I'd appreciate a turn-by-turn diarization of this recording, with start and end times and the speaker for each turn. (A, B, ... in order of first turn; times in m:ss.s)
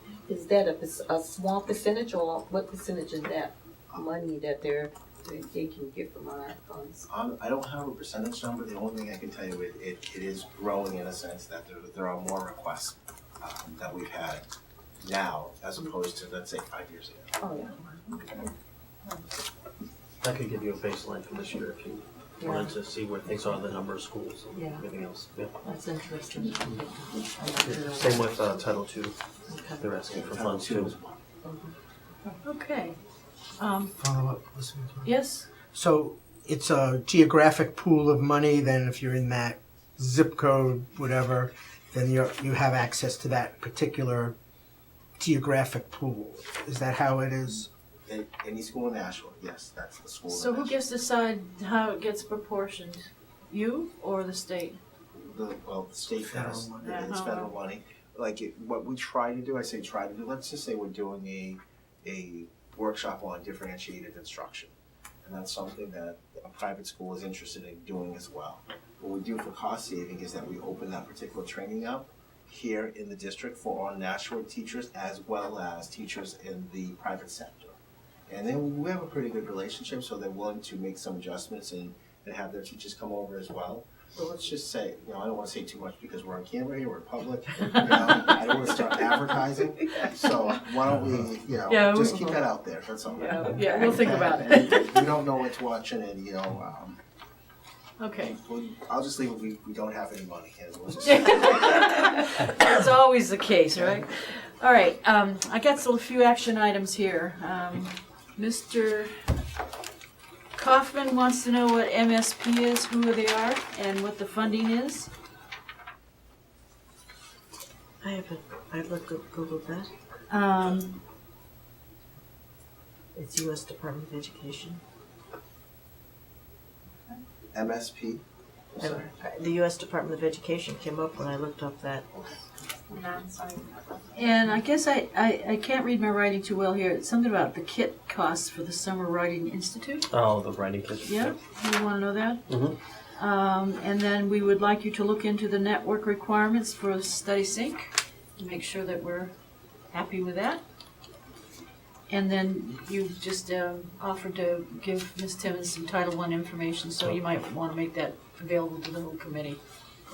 0:00.3-0:07.1 A
0:07.1-0:14.4 B
0:15.0-0:17.4 B
0:17.4-0:18.5 A
0:20.2-0:25.6 C
0:22.4-0:22.7 A
0:24.5-0:24.8 A
0:25.6-0:28.4 A
0:27.6-0:29.2 C
0:29.5-0:29.9 A
0:29.8-0:31.0 C
0:30.1-0:31.2 B
0:31.4-0:31.7 A
0:32.4-0:33.0 D
0:33.6-0:33.9 D
0:34.0-0:44.4 E
0:35.0-0:35.5 D
0:45.2-0:47.7 E
0:48.1-0:50.8 B
0:50.3-0:54.8 D
0:55.1-1:17.8 B
0:56.2-0:56.9 E
0:56.8-0:57.5 D
1:18.3-1:37.0 B
1:31.7-1:32.4 D
1:33.2-1:34.1 A
1:33.4-1:35.2 D
1:38.0-1:38.4 D
1:38.2-1:41.8 B
1:41.0-1:49.2 D
1:43.8-1:44.0 B
1:50.5-1:55.1 D
1:58.8-1:59.9 F
2:00.3-2:01.0 D
2:03.2-2:04.8 D
2:07.5-2:08.2 B
2:08.7-2:09.1 B
2:09.7-2:10.7 F
2:10.3-2:12.0 D
2:12.1-2:12.4 B
2:12.9-2:20.1 D
2:20.1-2:21.4 C
2:21.0-2:22.6 D
2:22.5-2:22.8 C
2:23.2-2:29.3 D
2:29.9-2:30.6 D
2:32.1-2:39.6 D